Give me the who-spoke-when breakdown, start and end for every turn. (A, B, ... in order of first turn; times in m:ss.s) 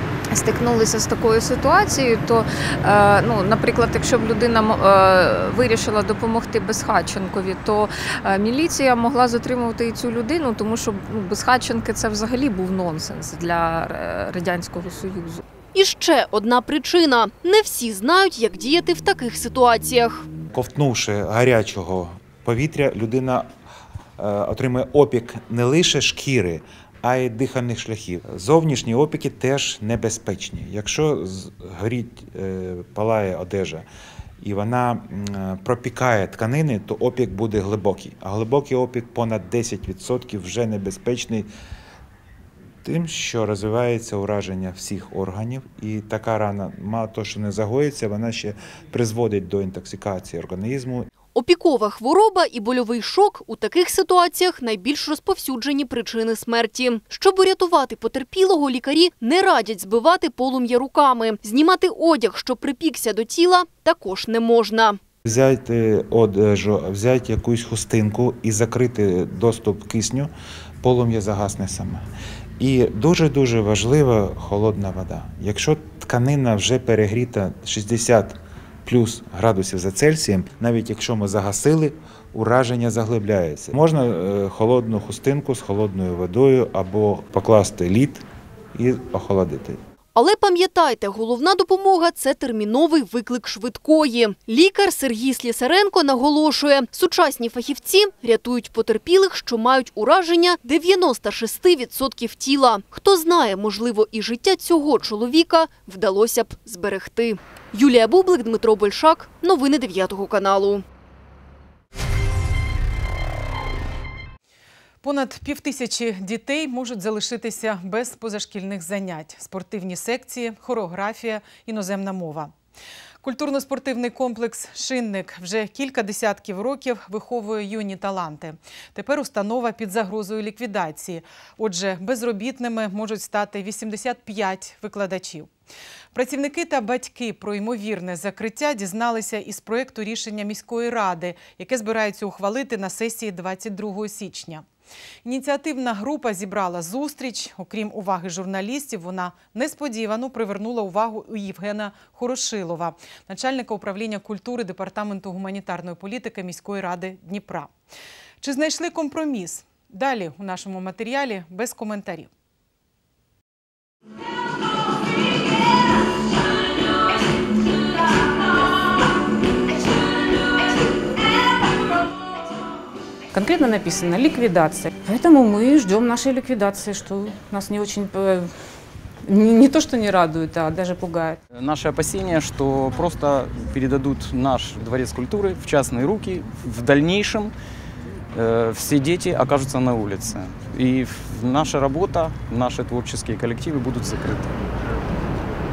0:00.3-0:15.4 A
0:15.7-0:20.3 B
0:20.5-0:23.5 C
0:24.2-0:33.9 C
0:34.4-0:41.5 C
0:42.8-0:51.1 C
0:51.3-1:05.0 B
1:05.3-1:12.0 C
1:12.6-1:28.2 C
1:28.8-1:29.8 C
1:30.2-1:50.8 B
1:55.0-2:02.5 D
2:03.2-2:15.5 D
2:16.1-2:24.6 D
2:25.2-2:37.7 D
2:38.4-2:42.3 D
2:53.3-2:58.5 E
2:59.3-3:01.4 E
3:01.6-3:07.5 F
3:08.4-3:14.5 F